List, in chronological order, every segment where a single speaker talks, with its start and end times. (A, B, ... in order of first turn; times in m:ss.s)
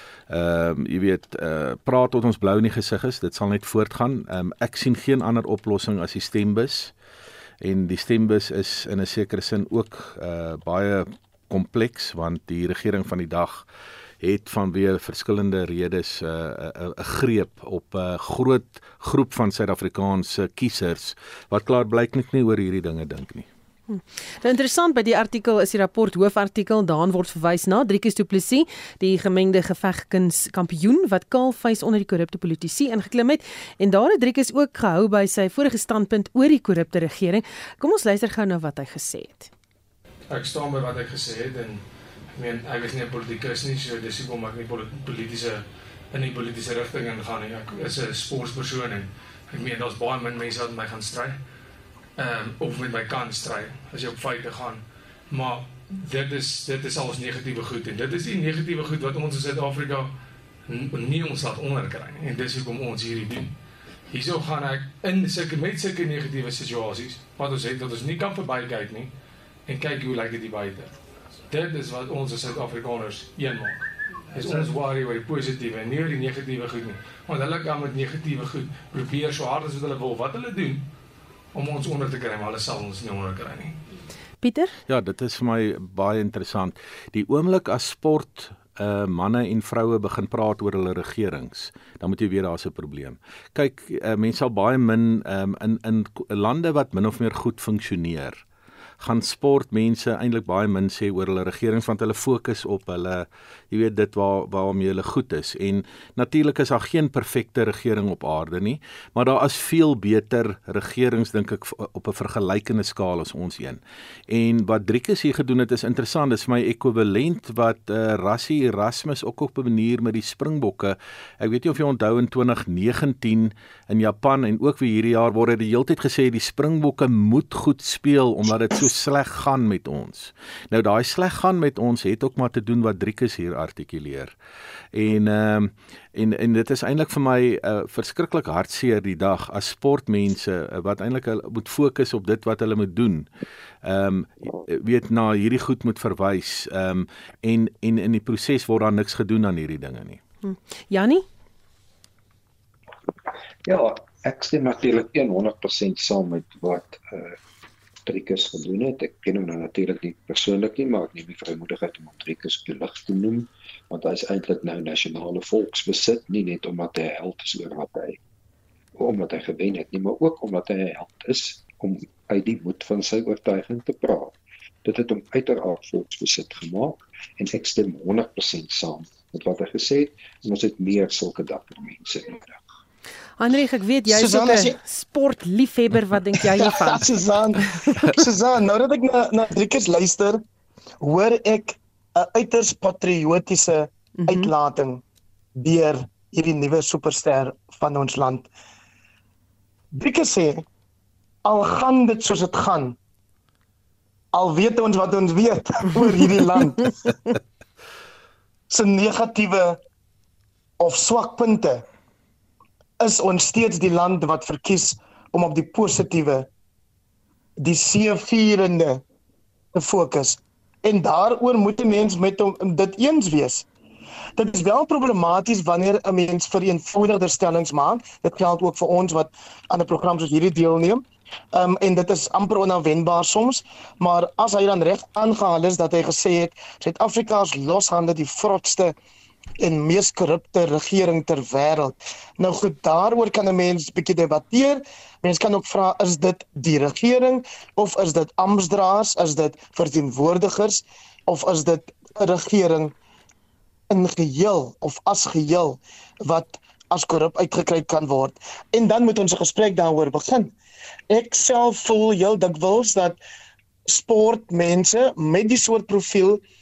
0:00.3-0:06.9 A
0:07.6-0:13.6 A
0:14.2-0:23.5 A
0:23.9-0:39.5 B
0:40.3-0:51.4 C
0:52.2-1:00.1 C
1:00.6-1:09.1 C
1:09.6-1:20.8 C
1:21.5-1:23.8 C
1:24.4-1:24.7 B
1:24.9-1:38.4 A
1:39.0-2:14.3 A
2:14.9-2:23.3 A
2:23.8-2:30.2 A
2:30.4-2:31.2 B
2:33.6-2:37.4 D
2:38.1-2:48.2 D
2:49.0-3:02.6 D
3:03.4-3:07.1 B
3:04.1-3:04.8 E
3:06.6-3:10.4 E
3:11.0-3:15.0 E
3:14.2-3:14.5 B
3:15.6-3:18.5 E
3:19.9-3:20.6 E
3:21.4-3:23.0 E
3:24.3-3:26.9 E
3:28.7-3:29.8 E
3:30.8-3:31.8 E
3:33.0-3:36.5 E
3:37.6-3:39.0 E
3:39.7-3:43.6 E
3:44.4-3:59.0 E
3:59.6-4:12.9 E
4:13.9-4:20.5 E
4:21.1-4:23.2 E
4:23.8-4:26.4 E